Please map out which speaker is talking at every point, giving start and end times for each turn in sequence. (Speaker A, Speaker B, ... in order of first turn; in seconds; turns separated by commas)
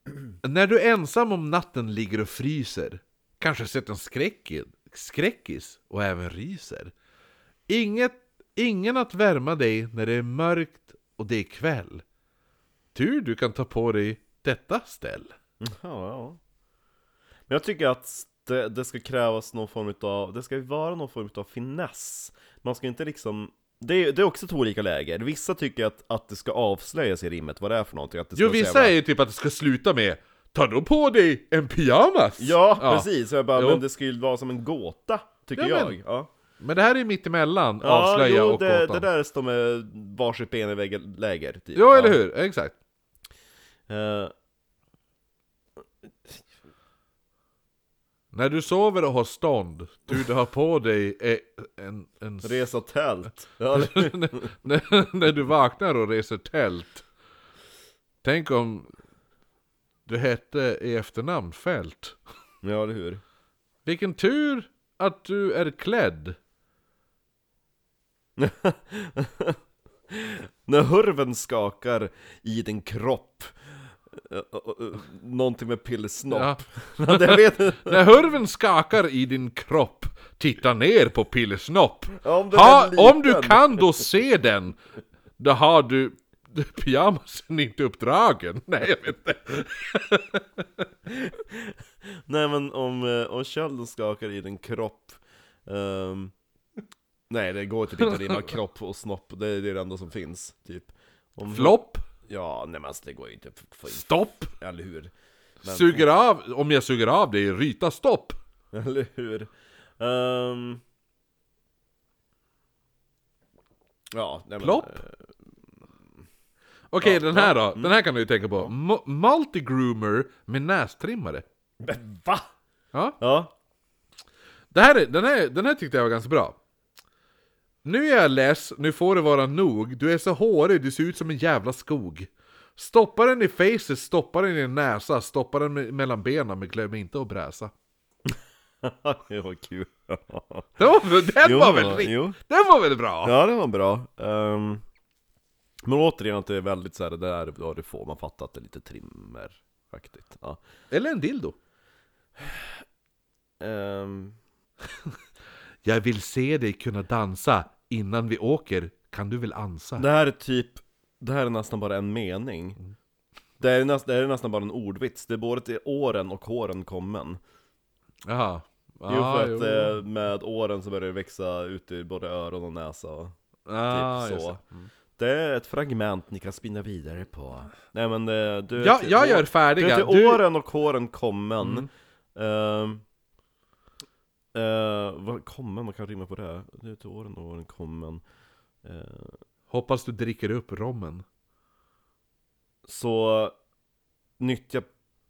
Speaker A: 0.4-6.9, Speaker A: 7.7-12.0, Speaker A: 12.9-15.3, Speaker B: 15.6-16.4, Speaker B: 17.5-29.0, Speaker A: 28.3-33.8, Speaker B: 32.4-36.3, Speaker A: 35.5-36.0, Speaker A: 36.6-39.1, Speaker B: 37.8-42.2, Speaker A: 41.7-42.7, Speaker B: 43.9-44.3, Speaker A: 48.3-52.6, Speaker B: 52.4-54.5, Speaker A: 53.7-57.0, Speaker A: 58.2-58.9, Speaker A: 60.1-62.2, Speaker B: 62.6-63.2, Speaker A: 63.8-66.4, Speaker B: 68.4-69.6, Speaker B: 70.1-78.2, Speaker A: 76.3-84.8, Speaker B: 82.2-83.9, Speaker A: 85.4-90.6, Speaker B: 91.1-91.7, Speaker B: 92.2-96.3, Speaker B: 97.3-105.1, Speaker A: 101.5-102.0, Speaker A: 103.9-104.5, Speaker A: 105.6-108.4, Speaker B: 105.6-106.1, Speaker B: 108.7-110.8, Speaker B: 114.1-115.3, Speaker A: 114.6-115.0, Speaker A: 116.9-121.4, Speaker B: 117.0-118.0, Speaker B: 121.8-122.5, Speaker B: 123.2-123.5, Speaker A: 124.7-126.6, Speaker A: 127.8-137.7, Speaker B: 138.8-140.7, Speaker A: 140.8-143.3, Speaker B: 141.4-142.4, Speaker B: 143.2-144.8, Speaker B: 145.8-150.6, Speaker A: 150.9-151.5, Speaker B: 153.6-154.4, Speaker A: 155.8-160.1, Speaker B: 160.0-162.8, Speaker B: 163.6-167.4, Speaker A: 168.3-170.0, Speaker B: 169.1-173.3, Speaker A: 173.7-174.6, Speaker B: 173.9-174.6, Speaker B: 175.2-183.0, Speaker A: 178.8-180.4, Speaker A: 181.6-181.9, Speaker B: 184.5-188.2, Speaker B: 188.8-189.4, Speaker A: 189.7-191.2, Speaker B: 192.8-193.5, Speaker B: 194.4-194.9